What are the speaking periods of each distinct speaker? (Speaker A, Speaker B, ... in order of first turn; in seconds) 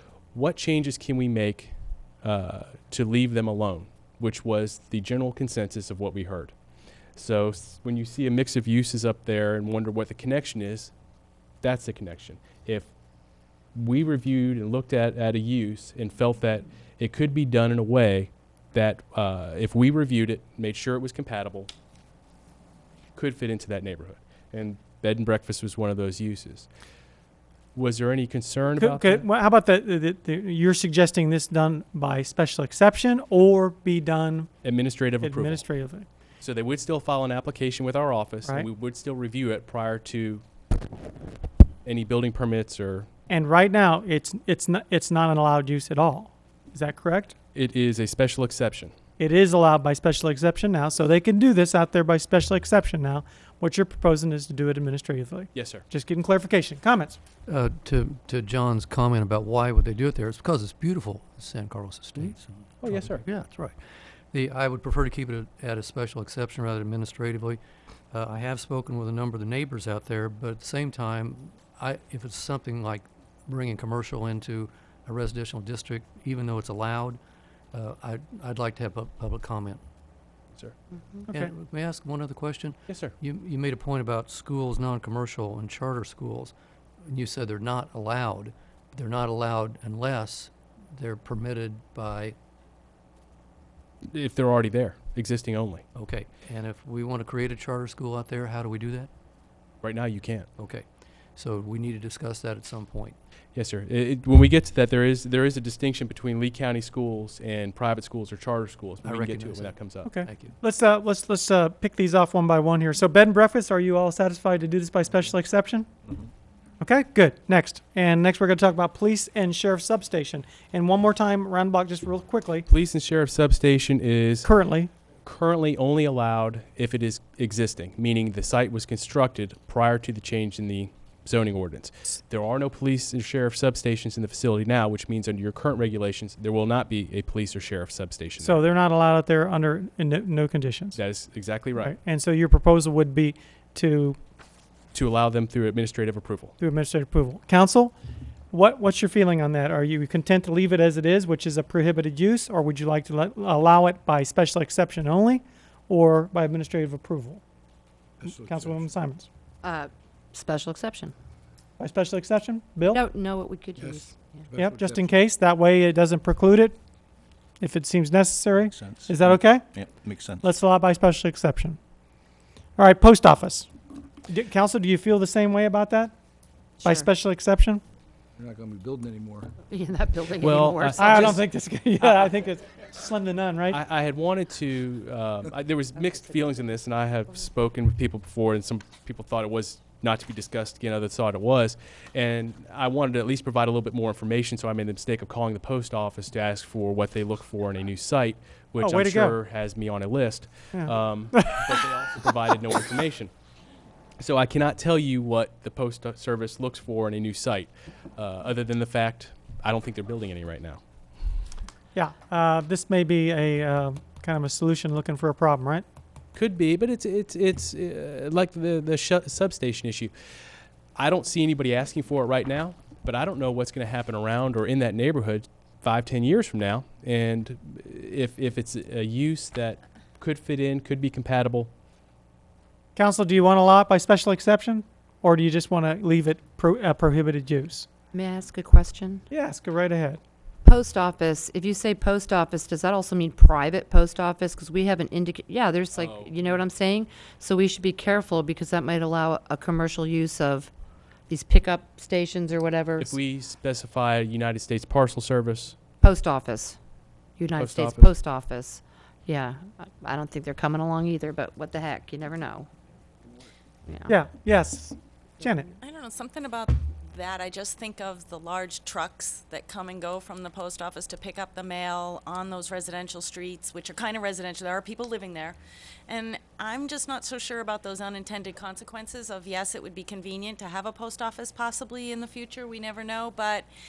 Speaker A: 0.3-6.5, 7.2-10.9, 11.6-12.9, 13.8-21.7, 23.2-26.7, 27.7-29.3, 34.6-35.7, 36.4-40.4, 41.8-43.1, 47.5-48.9, 55.5-55.8, 62.2-63.2, 82.9-83.1, 94.1-95.8, 99.8-100.5, 103.5-110.1, 122.7-124.5, 125.2-138.6, 140.9-141.9, 144.9-146.5, 180.4-181.4, 183.7-203.3, 204.2-210.8, 216.3-220.1, 220.9-231.7, 245.9-246.6, 253.0-255.8, 257.6-258.1
Speaker B: 28.8-34.5, 35.2-36.1, 43.3-47.3, 49.2-57.2, 110.1-115.9, 116.8-122.7, 124.5-124.9, 138.4-141.0, 141.8-144.2, 146.6-147.9, 148.5-157.4, 158.2-159.3, 161.8-163.0, 164.5-166.8, 167.6-169.7, 170.4-171.8, 172.8-173.7, 174.3-176.1, 176.8-177.8, 181.0-183.8, 198.8-199.3, 200.7-201.8, 211.9-215.8, 232.9-237.9, 239.3-240.2, 264.1-265.7
Speaker C: 57.5-67.6, 68.1-77.2, 77.7-79.8, 81.3-92.4, 96.0-99.1, 100.6-100.8, 101.4-103.2, 109.0-110.6
Speaker D: 158.2-158.8, 163.8-165.2, 168.7-170.4, 178.4-179.5
Speaker E: 159.6-161.1, 162.8-164.4, 176.8-177.1, 179.7-181.3, 238.1-239.2, 240.6-250.7, 251.3-253.1, 256.0-256.8, 257.4-262.7, 263.9-264.2
Speaker F: 265.8-275.6, 276.1-283.7